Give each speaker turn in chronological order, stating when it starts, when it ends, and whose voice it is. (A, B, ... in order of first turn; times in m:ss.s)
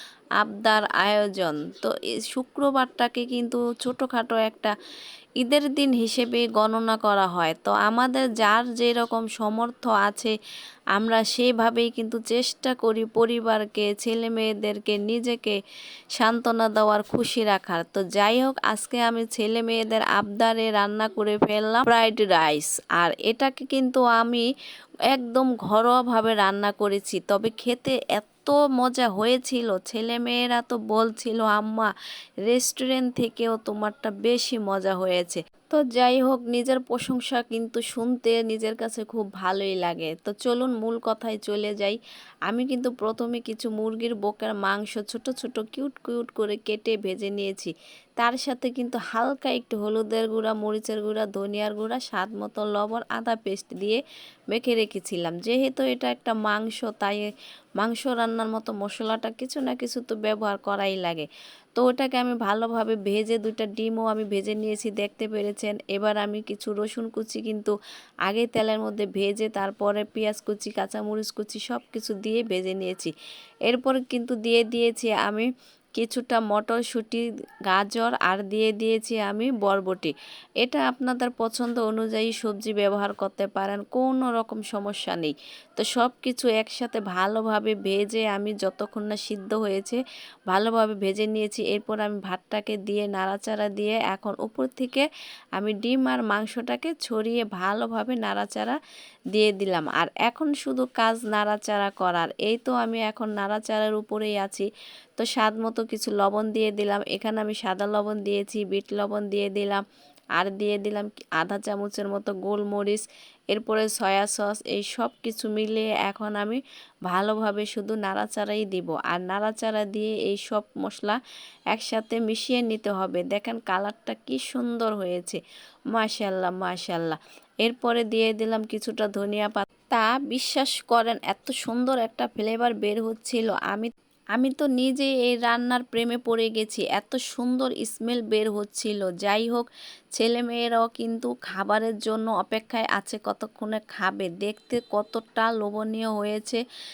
0:00.4-0:04.7 A
0:05.4-0:10.3 A
0:10.9-0:15.6 A
0:16.2-0:24.4 A
0:25.1-0:31.9 A
0:32.5-0:54.0 A
0:54.5-0:57.2 A
0:57.8-1:07.7 A
1:08.3-1:13.1 A
1:13.7-1:30.0 A
1:30.5-1:35.0 A
1:35.6-1:38.8 A
1:39.3-1:44.7 A
1:45.2-1:49.8 A
1:50.4-2:01.2 A
2:01.7-2:05.4 A
2:05.9-2:26.6 A